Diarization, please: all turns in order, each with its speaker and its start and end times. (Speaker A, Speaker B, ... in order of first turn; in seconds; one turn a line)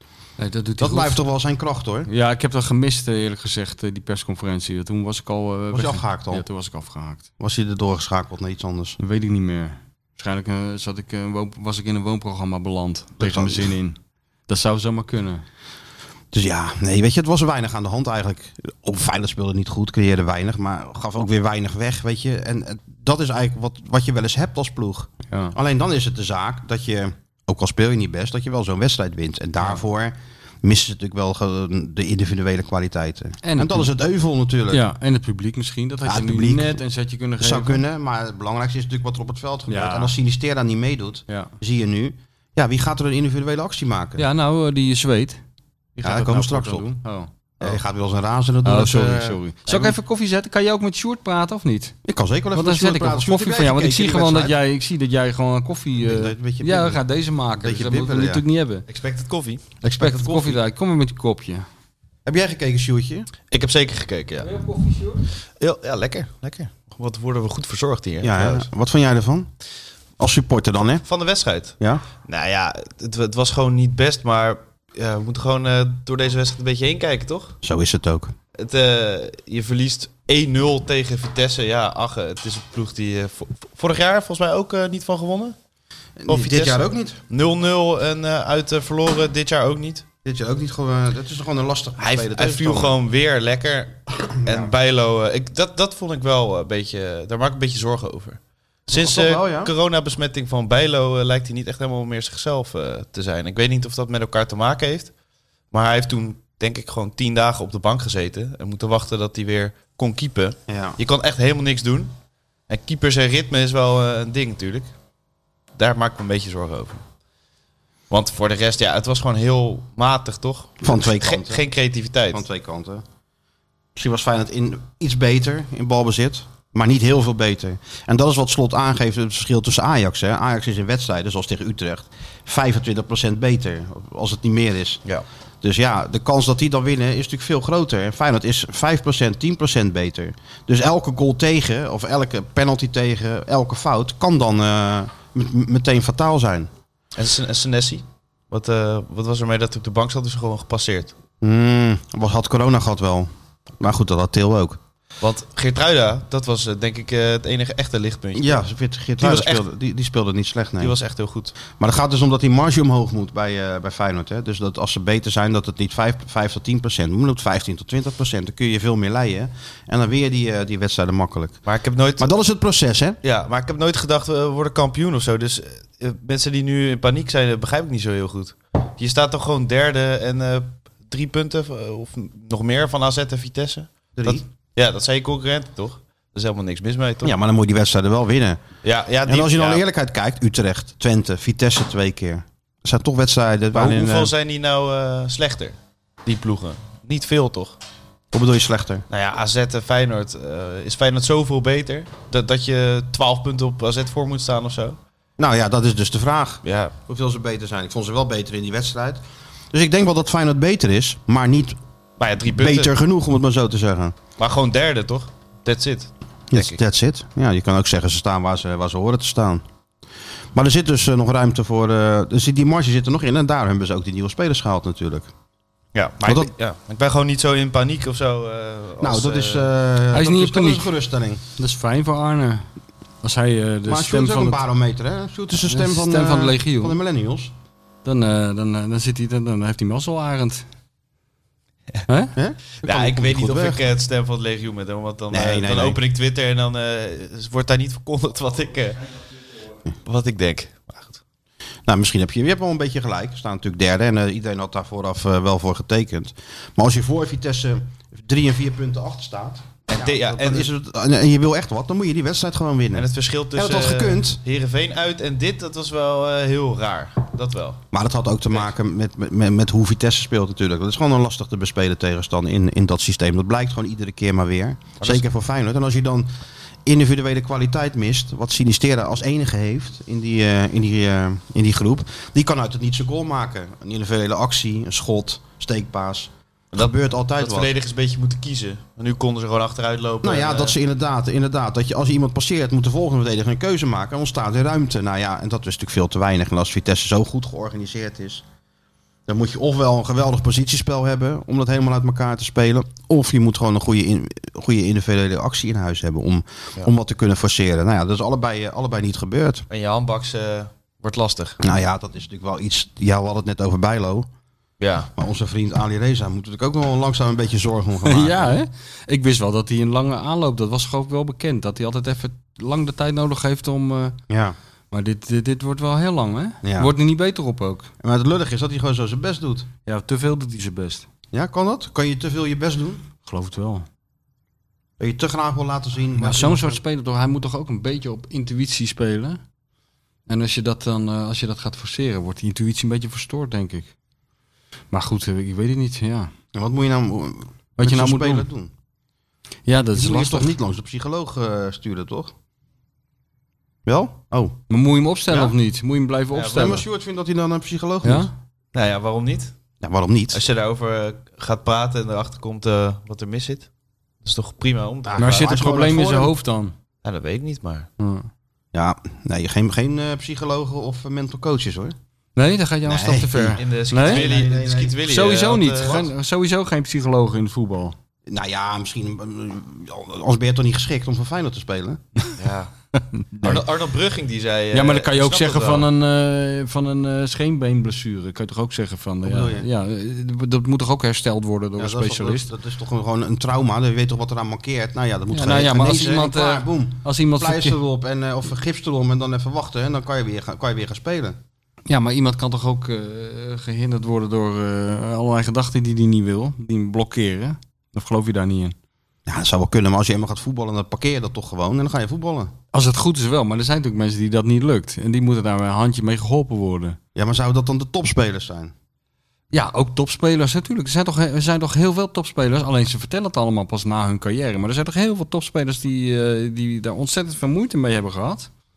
Speaker A: 0.4-1.2
Speaker B: 0.8-2.1
Speaker A: 2.1-7.3
Speaker B: 5.7-6.5
Speaker B: 7.4-9.0
Speaker A: 9.0-14.0
Speaker B: 13.2-13.7
Speaker A: 14.5-15.4
Speaker B: 16.3-34.9
Speaker A: 33.4-33.9
Speaker A: 34.7-37.8
Speaker B: 36.0-36.8
Speaker B: 37.4-44.2
Speaker A: 39.7-40.1
Speaker A: 44.2-45.4
Speaker A: 46.0-47.3
Speaker B: 46.0-46.9
Speaker B: 47.6-49.4
Speaker A: 48.6-52.0
Speaker B: 52.0-54.6
Speaker A: 52.5-58.9
Speaker B: 56.0-58.4
Speaker C: 58.9-59.8
Speaker B: 59.8-60.6
Speaker A: 60.0-61.7
Speaker B: 62.3-63.3
Speaker C: 63.5-64.5
Speaker A: 64.4-65.3
Speaker C: 65.6-68.7
Speaker B: 68.2-69.5
Speaker B: 70.2-71.0
Speaker C: 71.0-77.6
Speaker B: 77.6-78.3
Speaker C: 78.6-85.6
Speaker B: 86.2-87.2
Speaker C: 86.3-90.1
Speaker B: 90.2-93.0
Speaker C: 92.0-105.1
Speaker B: 94.5-94.7
Speaker B: 98.9-99.7
Speaker C: 105.7-112.1
Speaker B: 110.7-111.0
Speaker C: 112.7-114.9
Speaker C: 115.8-117.0
Speaker C: 118.1-122.5
Speaker B: 120.8-121.6
Speaker B: 122.3-123.0
Speaker B: 124.0-135.0
Speaker B: 135.6-146.7
Speaker C: 147.2-151.2
Speaker B: 151.4-154.8
Speaker C: 155.2-158.7
Speaker B: 158.3-161.0
Speaker C: 159.2-159.6
Speaker C: 160.8-161.6
Speaker B: 161.7-171.6
Speaker C: 171.7-172.3
Speaker B: 172.2-173.2
Speaker C: 173.2-187.3
Speaker B: 184.2-184.4
Speaker B: 187.2-188.6
Speaker C: 188.8-189.8
Speaker B: 189.3-194.3
Speaker C: 193.7-197.8
Speaker B: 198.3-199.1
Speaker C: 199.1-205.0
Speaker B: 205.4-211.8
Speaker C: 206.6-206.9
Speaker C: 212.2-212.9
Speaker B: 212.5-214.2
Speaker C: 214.4-216.8
Speaker B: 216.5-219.6
Speaker B: 220.5-225.3
Speaker C: 225.9-229.7
Speaker B: 226.2-226.5
Speaker B: 229.0-231.4
Speaker A: 230.1-230.9
Speaker A: 231.6-232.7
Speaker A: 233.2-234.6
Speaker B: 233.9-237.5
Speaker A: 235.7-237.0
Speaker A: 238.1-240.7
Speaker A: 242.1-242.3
Speaker B: 242.4-243.8
Speaker C: 242.8-249.2
Speaker B: 245.3-246.0
Speaker C: 250.1-251.2
Speaker B: 251.9-264.4
Speaker C: 259.9-260.7
Speaker C: 262.9-267.8
Speaker B: 267.9-276.3
Speaker C: 275.0-275.2
Speaker B: 276.9-287.7
Speaker C: 286.7-290.8
Speaker B: 290.2-298.4
Speaker B: 299.3-309.6
Speaker C: 309.7-311.6
Speaker B: 311.6-314.3
Speaker C: 314.8-315.1
Speaker B: 315.2-318.6
Speaker A: 318.1-324.2
Speaker B: 324.3-324.6
Speaker A: 324.9-327.9
Speaker B: 326.6-326.9
Speaker B: 328.0-329.7
Speaker A: 329.9-331.1
Speaker B: 331.3-333.1
Speaker A: 333.2-333.9
Speaker B: 335.0-336.8
Speaker A: 336.2-339.4
Speaker A: 340.3-343.9
Speaker A: 344.9-346.3
Speaker B: 346.5-348.7
Speaker A: 347.8-348.5
Speaker A: 349.7-350.5
Speaker B: 349.9-352.3
Speaker B: 353.9-354.6
Speaker A: 354.7-356.8
Speaker B: 356.4-358.3
Speaker A: 358.0-358.3
Speaker C: 358.7-359.5
Speaker B: 359.8-360.4
Speaker C: 360.3-363.7
Speaker C: 364.2-365.5
Speaker B: 365.1-366.3
Speaker A: 365.2-366.7
Speaker C: 367.0-367.9
Speaker A: 368.0-368.3
Speaker B: 368.7-371.9
Speaker A: 372.4-374.2
Speaker B: 372.9-375.0
Speaker C: 373.6-376.0
Speaker A: 375.1-377.9
Speaker B: 378.3-382.0
Speaker C: 382.4-382.7
Speaker A: 383.0-383.6
Speaker C: 383.4-385.9
Speaker A: 384.7-392.5
Speaker B: 389.2-389.7
Speaker B: 391.8-401.4
Speaker A: 395.3-397.8
Speaker A: 401.9-408.8
Speaker B: 409.3-412.5
Speaker A: 412.7-417.0
Speaker B: 417.1-418.7
Speaker A: 419.5-428.5